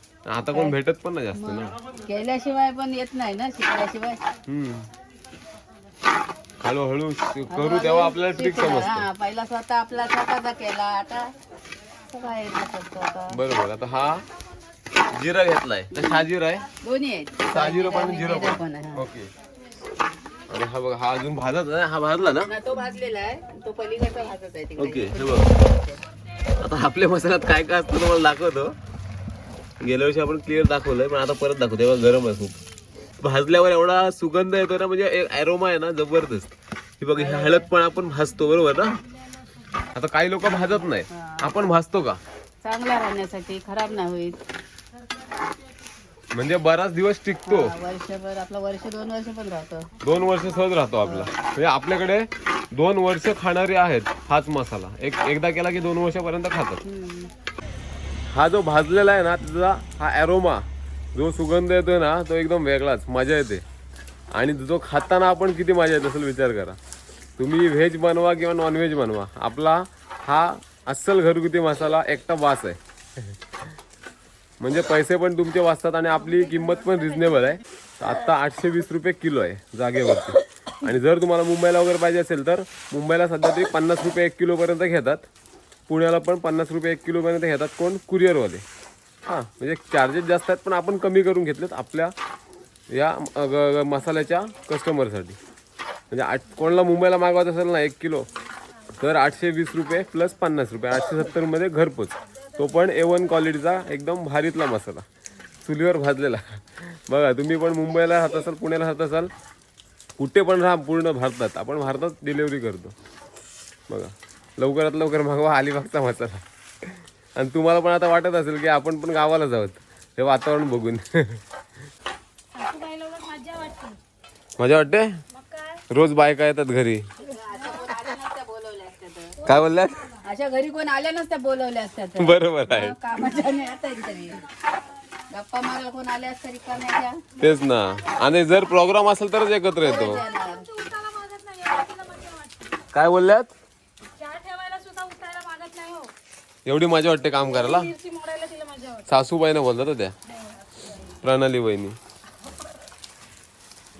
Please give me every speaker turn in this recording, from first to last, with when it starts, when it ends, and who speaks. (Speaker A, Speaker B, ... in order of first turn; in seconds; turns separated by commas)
Speaker A: 0.3-1.7, Speaker B: 1.3-4.2, Speaker A: 4.5-4.9, Speaker A: 6.6-9.1, Speaker B: 7.5-11.3, Speaker B: 12.1-13.4, Speaker A: 13.3-14.2, Speaker A: 15.1-16.6, Speaker B: 15.9-16.2, Speaker B: 16.8-19.0, Speaker A: 17.5-19.3, Speaker A: 20.5-22.5, Speaker B: 22.4-26.0, Speaker A: 24.8-25.5, Speaker A: 26.6-28.8, Speaker A: 29.8-32.6, Speaker A: 33.2-39.0, Speaker B: 37.1-37.7, Speaker A: 39.9-42.2, Speaker B: 41.1-41.5, Speaker B: 42.6-44.4, Speaker A: 46.3-47.7, Speaker B: 47.5-49.9, Speaker A: 50.0-56.8, Speaker B: 51.0-51.3, Speaker B: 56.8-57.3, Speaker A: 58.3-63.6, Speaker A: 64.3-66.8, Speaker A: 67.4-73.4, Speaker A: 74.6-85.3, Speaker A: 85.9-88.6, Speaker A: 89.2-92.1, Speaker A: 92.9-95.4, Speaker A: 96.1-98.3, Speaker A: 98.9-105.0, Speaker A: 105.6-109.3, Speaker A: 110.2-112.9, Speaker A: 113.9-121.4, Speaker C: 122.5-124.0, Speaker A: 124.6-125.2, Speaker C: 125.3-125.8, Speaker A: 125.9-127.1, Speaker B: 127.2-129.4, Speaker A: 129.4-130.0, Speaker B: 130.2-134.4, Speaker A: 132.2-132.9, Speaker B: 135.3-137.2, Speaker A: 137.4-140.2, Speaker B: 139.8-140.7, Speaker C: 139.9-142.8, Speaker A: 142.9-143.5, Speaker C: 144.2-146.1, Speaker A: 146.7-147.9, Speaker C: 147.4-149.1, Speaker A: 149.1-150.1, Speaker A: 151.2-151.9